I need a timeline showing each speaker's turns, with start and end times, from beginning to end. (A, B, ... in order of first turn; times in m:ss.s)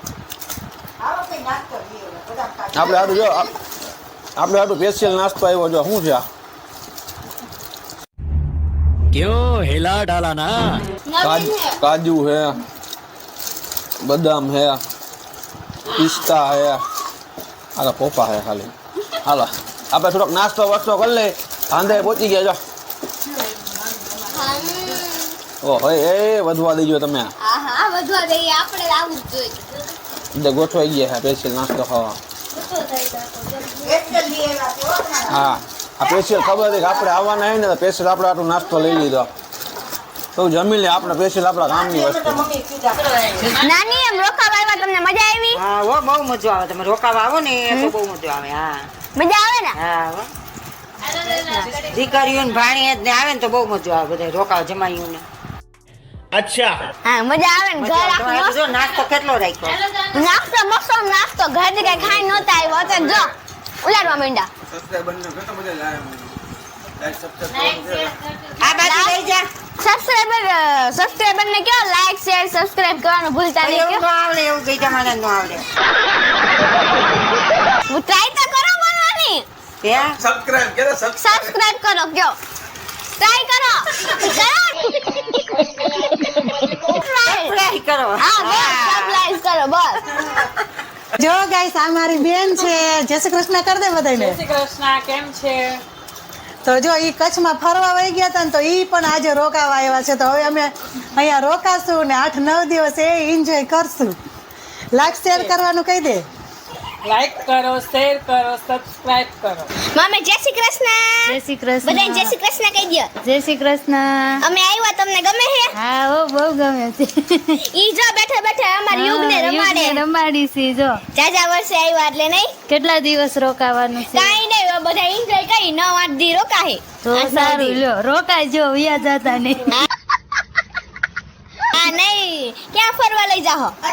0:01.1-0:02.5 A
0:02.7-0:03.5 B
0:04.4-0:06.3 B
0:09.1-0:10.8 C
0:11.1-0:11.8 D
0:11.2-0:12.6 B
0:14.0-0:14.8 B
0:15.9-0:16.8 B
0:17.8-0:22.6 B
0:24.3-0:25.4 D
0:25.6-0:27.3 B
0:27.4-0:29.8 D
0:30.3-0:32.2 B
0:32.5-0:34.2 E
0:34.2-0:35.2 A
0:35.3-0:39.3 B
0:36.2-0:36.7 D
0:40.4-0:42.5 B
0:41.7-0:43.5 A
0:43.5-0:45.6 D
0:45.5-0:48.9 A
0:49.2-0:49.8 D
0:49.7-0:50.3 A
0:51.3-0:55.3 A
0:56.3-0:56.8 C
0:57.0-0:58.6 D
0:57.7-0:59.9 A
1:00.1-1:04.5 D
1:01.8-1:03.2 A
1:04.7-1:06.4 B
1:07.0-1:08.1 B
1:08.6-1:09.5 A
1:08.8-1:09.2 D
1:09.8-1:14.1 D
1:13.6-1:15.6 A
1:17.9-1:19.5 D
1:19.8-1:20.2 A
1:20.2-1:21.5 B
1:21.2-1:22.4 D
1:23.2-1:26.0 D
1:26.8-1:27.6 D
1:27.2-1:29.2 A
1:28.2-1:30.1 D
1:30.1-1:30.4 F
1:30.2-1:30.6 A
1:31.2-1:34.4 F
1:34.2-1:35.8 G
1:36.6-1:44.2 F
1:44.9-1:46.2 F
1:45.3-1:45.6 G
1:47.0-1:49.7 G
1:49.8-1:53.1 D
1:51.3-1:52.3 E
1:53.2-1:54.4 E
1:54.4-1:55.7 D
1:55.7-1:57.6 E
1:57.7-2:00.0 D
1:58.9-2:01.0 E
2:01.1-2:02.5 D
2:02.7-2:04.4 E
2:04.0-2:07.8 D
2:07.0-2:09.8 E
2:11.7-2:13.8 D